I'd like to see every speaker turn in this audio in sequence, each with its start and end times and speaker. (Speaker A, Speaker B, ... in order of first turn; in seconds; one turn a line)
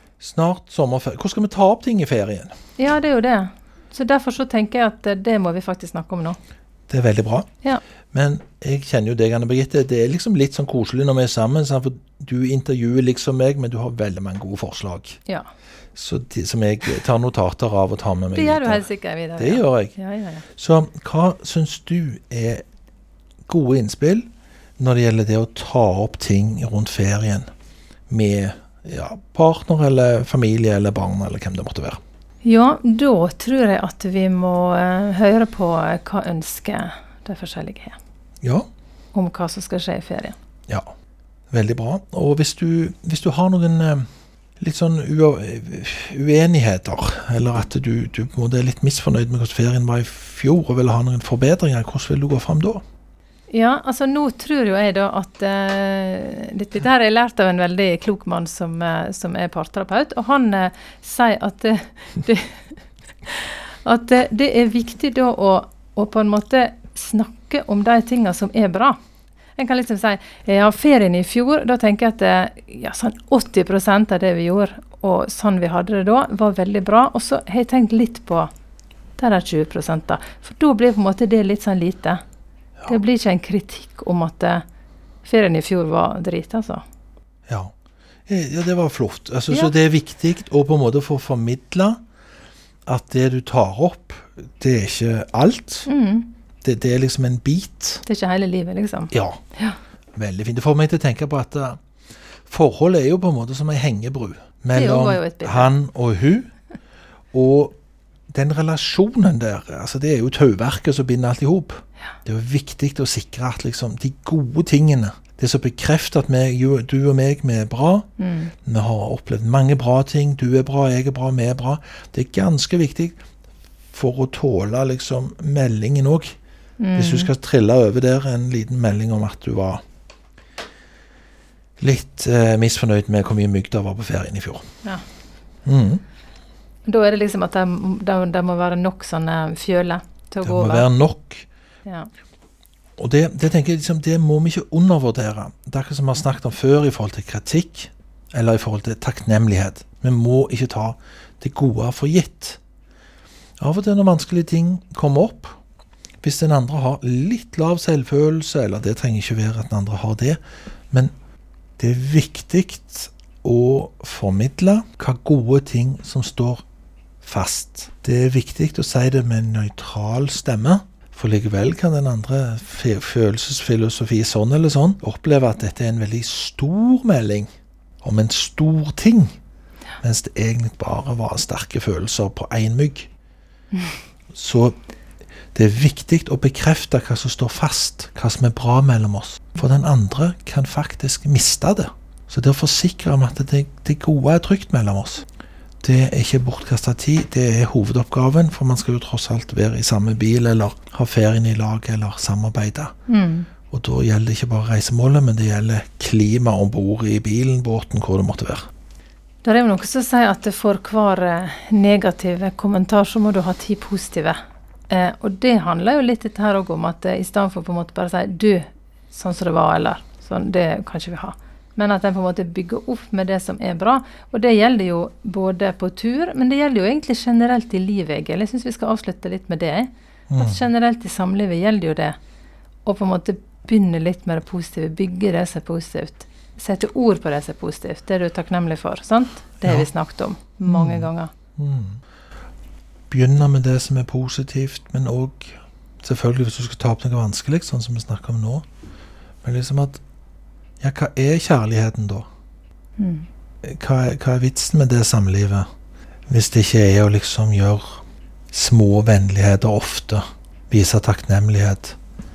Speaker A: 0.2-2.5
Speaker B: 2.8-6.4
Speaker A: 6.9-7.5
Speaker A: 8.1-15.2
Speaker A: 15.9-18.8
Speaker B: 18.3-20.4
Speaker A: 19.4-19.9
Speaker A: 20.6-22.6
Speaker A: 23.4-24.3
Speaker A: 24.8-27.4
Speaker A: 28.1-32.0
Speaker B: 32.4-38.0
Speaker A: 38.4-38.7
Speaker B: 39.1-40.3
Speaker A: 41.5-44.0
Speaker A: 44.6-52.8
Speaker B: 53.5-69.0
Speaker B: 69.5-78.5
Speaker B: 79.2-82.2
Speaker B: 82.8-84.6
Speaker B: 85.2-86.8
Speaker A: 87.5-87.7
Speaker A: 88.3-92.0
Speaker A: 92.8-95.9
Speaker B: 95.9-96.3
Speaker A: 96.6-98.0
Speaker B: 98.0-99.8
Speaker A: 99.1-99.4
Speaker A: 100.2-101.8
Speaker A: 102.5-106.5
Speaker B: 104.7-105.7
Speaker A: 107.3-107.7
Speaker A: 108.3-118.1
Speaker B: 118.2-118.5
Speaker A: 118.6-123.2
Speaker A: 123.9-126.3
Speaker B: 126.8-127.3
Speaker A: 127.0-129.8
Speaker A: 131.8-134.7
Speaker A: 135.6-136.0
Speaker B: 136.8-140.9
Speaker A: 140.4-141.4
Speaker B: 141.8-142.1
Speaker A: 143.0-152.6
Speaker A: 153.6-155.6
Speaker A: 156.2-160.4
Speaker A: 161.8-166.6
Speaker A: 167.2-177.5
Speaker A: 178.0-179.3
Speaker A: 180.0-183.1
Speaker A: 184.3-184.7
Speaker A: 185.5-195.2
Speaker A: 195.8-202.9
Speaker B: 203.1-203.5
Speaker A: 203.7-208.6
Speaker B: 209.4-232.2
Speaker A: 230.3-230.6
Speaker B: 232.8-241.3
Speaker A: 240.6-242.0
Speaker A: 243.1-248.6
Speaker A: 249.4-250.0
Speaker A: 250.8-252.3
Speaker B: 253.0-253.3
Speaker A: 253.6-255.7
Speaker A: 256.3-261.9